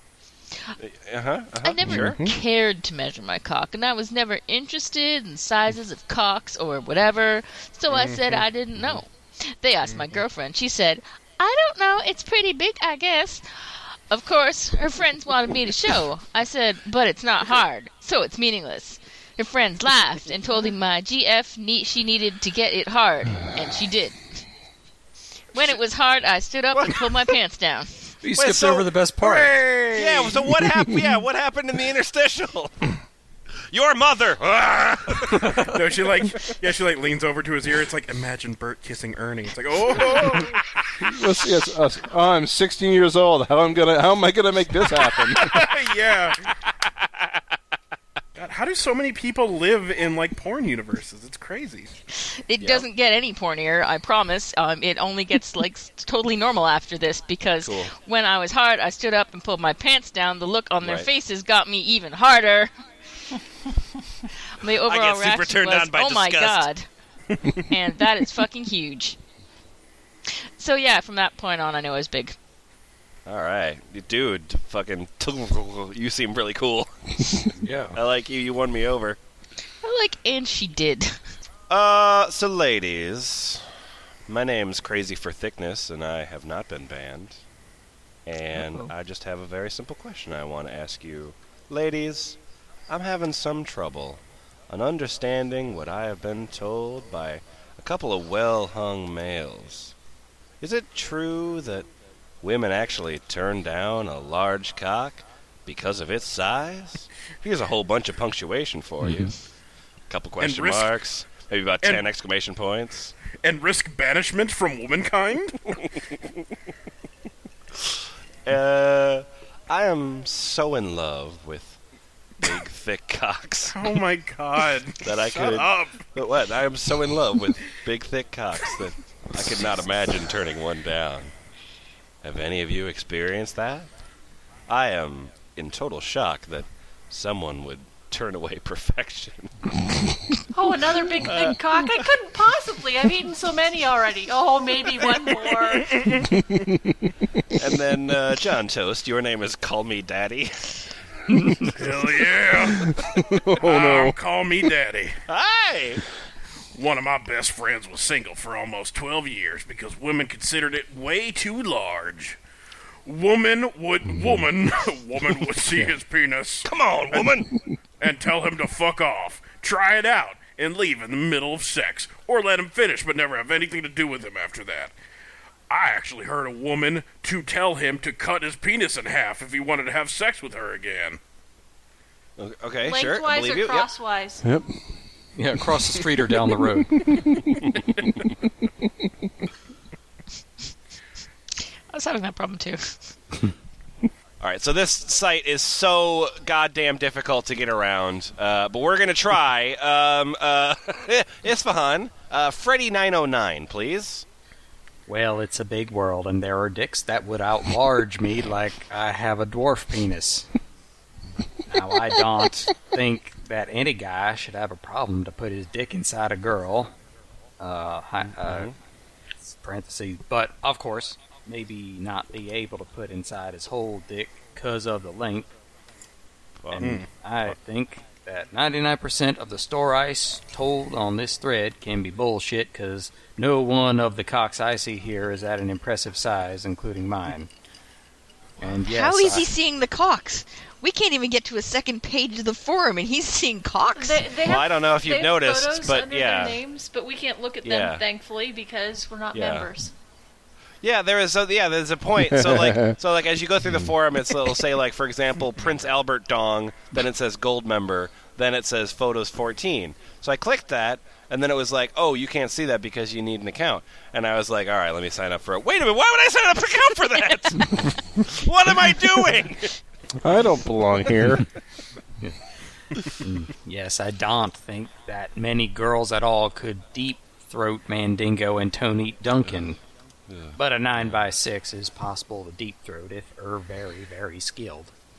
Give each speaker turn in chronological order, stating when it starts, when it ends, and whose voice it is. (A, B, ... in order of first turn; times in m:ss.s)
0:00.8-0:02.2 A
0:01.6-0:24.2 B
0:01.8-0:02.3 C
0:07.9-0:08.3 D
0:09.9-0:10.2 D
0:25.5-0:28.0 B
0:26.7-0:27.1 A
0:28.2-0:29.6 E
0:28.4-0:28.9 A
0:29.2-0:30.6 D
0:29.9-0:32.9 A
0:33.7-0:35.8 A
0:35.6-0:40.6 D
0:41.0-0:45.6 C
0:45.4-0:46.5 D
0:46.9-0:47.4 A
0:48.4-0:51.9 D
0:52.2-1:02.7 B
0:52.6-0:52.9 A
0:57.6-0:57.9 A
1:00.8-1:01.1 A
1:04.5-1:06.9 B
1:04.8-1:06.7 A
1:07.7-1:09.2 B
1:10.3-1:12.4 B
1:13.3-1:19.2 A
1:17.6-1:18.0 E
1:19.8-1:21.2 B
1:21.7-1:23.6 A
1:24.3-1:27.4 A
1:28.3-1:32.4 A
1:32.9-1:39.9 A
1:40.6-1:41.9 A
1:42.4-1:49.3 A
1:50.1-1:53.1 A
1:50.4-1:51.0 D
1:53.4-1:55.8 D
1:58.4-2:01.8 A
2:02.4-2:03.9 A
2:03.7-2:06.1 D
2:05.0-2:11.3 A
2:12.2-2:13.9 A
2:14.7-2:19.6 A
2:20.5-2:25.9 F
2:21.2-2:21.6 A
2:25.8-2:26.5 D
2:26.3-2:27.0 C
2:27.6-2:30.8 A
2:31.3-2:31.7 E
2:31.7-2:35.2 D
2:32.8-2:34.2 C
2:35.3-2:36.0 A
2:36.8-2:42.4 D
2:43.1-2:47.4 D
2:46.6-2:47.5 A
2:48.0-2:54.9 D
2:55.7-3:01.2 D
3:02.4-3:03.9 A
3:02.8-3:04.4 F
3:04.4-3:04.7 C
3:05.4-3:07.2 E
3:07.1-3:07.4 C
3:11.9-3:13.0 B
3:14.4-3:24.3 A
3:25.1-3:30.5 E
3:31.7-3:36.9 E
3:37.6-3:38.7 E
3:38.4-3:38.7 A
3:39.4-3:45.5 E
3:46.6-3:47.0 A
3:46.7-3:57.5 E
3:58.6-3:59.5 E
3:58.8-4:04.3 B
4:04.0-4:09.9 F
4:04.4-4:06.6 A
4:07.6-4:08.0 A
4:09.3-4:09.7 A
4:10.8-4:29.8 A
4:12.2-4:13.0 C
4:30.2-4:31.5 C
4:33.0-4:39.8 E
4:40.3-4:40.6 A
4:40.6-4:44.9 E